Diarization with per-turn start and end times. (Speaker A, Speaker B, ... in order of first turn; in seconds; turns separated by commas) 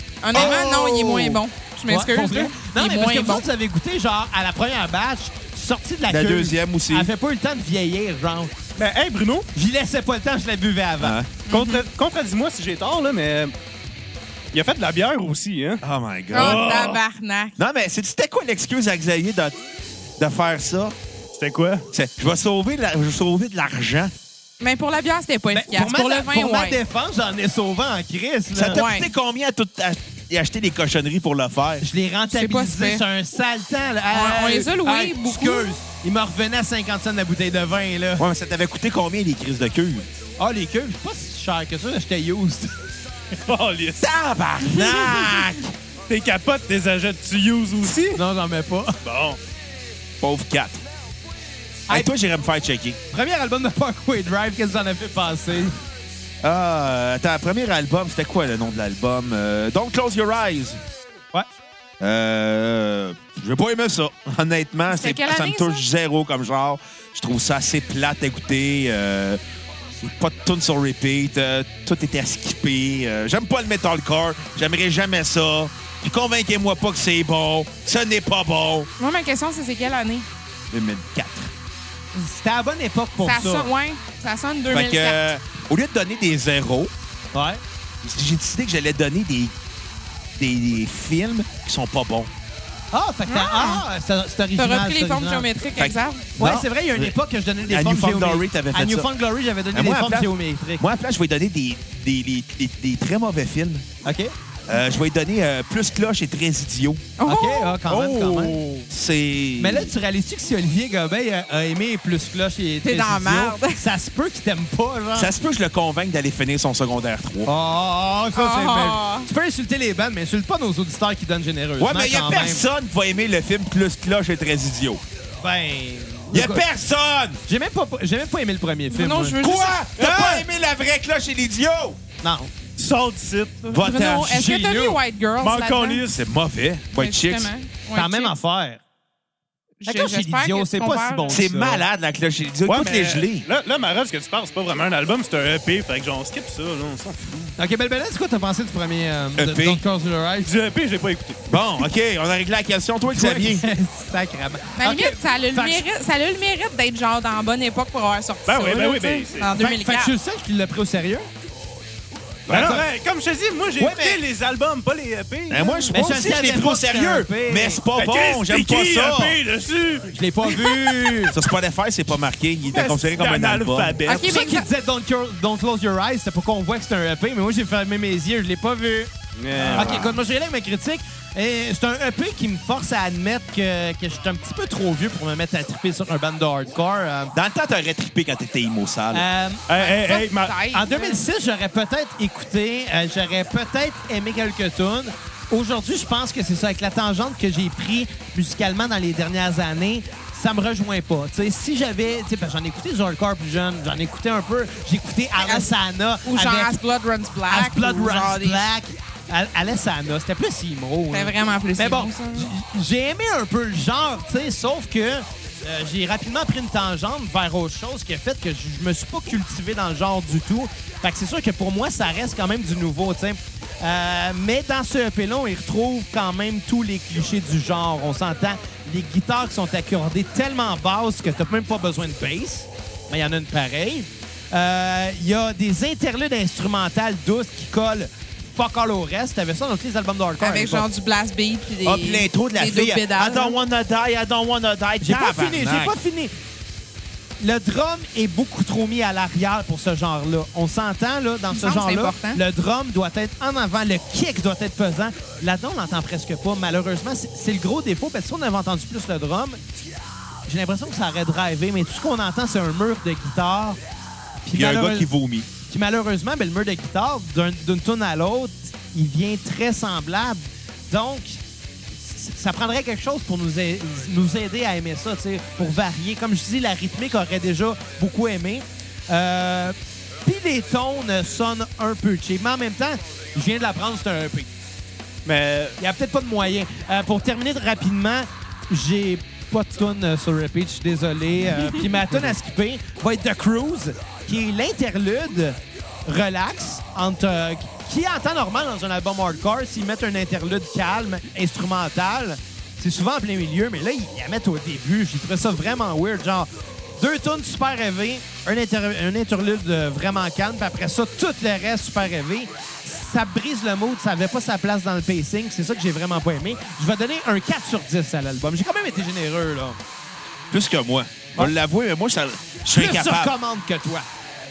Speaker A: 0.2-3.4, Speaker B: 0.3-8.5, Speaker C: 6.1-7.1, Speaker D: 8.8-9.5, Speaker B: 9.5-11.2, Speaker C: 11.0-11.3, Speaker A: 11.5-11.8, Speaker D: 11.5-13.5, Speaker D: 14.5-15.8, Speaker C: 15.8-16.8, Speaker A: 16.3-17.5, Speaker D: 16.3-17.0, Speaker C: 17.6-19.6, Speaker C: 20.2-20.9, Speaker D: 21.3-21.9, Speaker C: 21.9-24.1, Speaker A: 24.6-26.8, Speaker B: 25.5-28.8, Speaker C: 28.5-31.8, Speaker A: 28.7-29.1, Speaker B: 31.8-38.2, Speaker A: 32.3-33.0, Speaker A: 34.1-35.7, Speaker C: 38.2-40.1, Speaker B: 40.4-42.7, Speaker D: 43.5-44.1, Speaker C: 44.0-45.7, Speaker A: 44.7-45.1, Speaker D: 46.1-48.2, Speaker B: 48.1-49.0, Speaker D: 49.0-49.4, Speaker C: 50.2-50.8, Speaker B: 51.9-52.1, Speaker C: 51.9-53.0, Speaker B: 53.1-55.8, Speaker C: 56.4-60.8, Speaker C: 62.0-69.4, Speaker A: 64.9-65.8, Speaker C: 70.0-78.9, Speaker A: 79.0-80.3, Speaker C: 80.7-81.5, Speaker B: 82.1-83.7, Speaker A: 83.2-85.2, Speaker C: 84.7-86.9, Speaker B: 87.3-87.6, Speaker C: 88.0-89.5, Speaker C: 90.3-92.3, Speaker B: 92.9-95.5, Speaker A: 93.3-93.8, Speaker A: 94.5-96.3, Speaker C: 95.8-99.1, Speaker B: 96.4-100.8, Speaker C: 99.7-103.8, Speaker B: 104.0-104.3, Speaker C: 104.7-107.1, Speaker A: 107.2-107.8, Speaker B: 107.2-108.6, Speaker D: 107.9-108.9, Speaker C: 108.9-109.9, Speaker B: 109.6-115.3, Speaker A: 112.8-113.8, Speaker C: 115.1-117.5, Speaker B: 117.5-122.6, Speaker A: 118.3-119.3, Speaker C: 121.8-125.0, Speaker B: 125.4-126.6, Speaker C: 126.3-127.4, Speaker B: 127.5-129.3, Speaker A: 128.9-129.8, Speaker C: 129.4-132.0, Speaker D: 130.0-130.4, Speaker B: 132.2-132.5, Speaker D: 132.8-133.7, Speaker A: 133.6-136.0, Speaker C: 133.7-134.5, Speaker B: 134.2-135.0, Speaker D: 135.4-136.2, Speaker C: 136.1-137.5, Speaker A: 137.0-138.3, Speaker B: 137.9-138.8, Speaker A: 139.8-141.4, Speaker B: 139.8-141.8, Speaker C: 141.3-143.4, Speaker D: 142.7-147.5, Speaker B: 147.6-150.5, Speaker C: 149.4-149.8, Speaker D: 150.4-151.4, Speaker C: 151.5-153.6, Speaker B: 153.1-155.8, Speaker A: 154.8-160.1, Speaker D: 158.4-159.5, Speaker B: 159.6-161.3, Speaker C: 162.5-162.8, Speaker D: 162.5-165.9, Speaker B: 162.5-162.8, Speaker C: 163.8-164.2, Speaker C: 165.5-169.4, Speaker B: 165.9-167.8, Speaker D: 168.0-171.3, Speaker B: 170.1-171.3, Speaker C: 171.3-174.2, Speaker D: 172.7-174.2, Speaker A: 174.0-174.7, Speaker B: 174.1-187.3, Speaker D: 179.4-180.2, Speaker C: 179.7-180.2, Speaker C: 187.3-189.2, Speaker B: 189.1-189.6, Speaker D: 189.7-190.6, Speaker A: 189.8-191.2, Speaker B: 190.7-206.7, Speaker A: 205.4-205.7, Speaker A: 206.2-208.7, Speaker B: 207.5-240.9, Speaker A: 211.1-212.5, Speaker A: 240.4-243.6, Speaker C: 241.8-245.9, Speaker B: 245.0-246.3, Speaker B: 247.4-259.6, Speaker A: 251.5-252.4, Speaker B: 260.5-263.8, Speaker B: 264.4-265.1, Speaker C: 264.5-265.5, Speaker B: 265.6-271.4, Speaker B: 271.9-284.5, Speaker D: 285.2-285.8, Speaker B: 285.8-319.8, Speaker C: 320.5-323.3, Speaker B: 322.7-324.1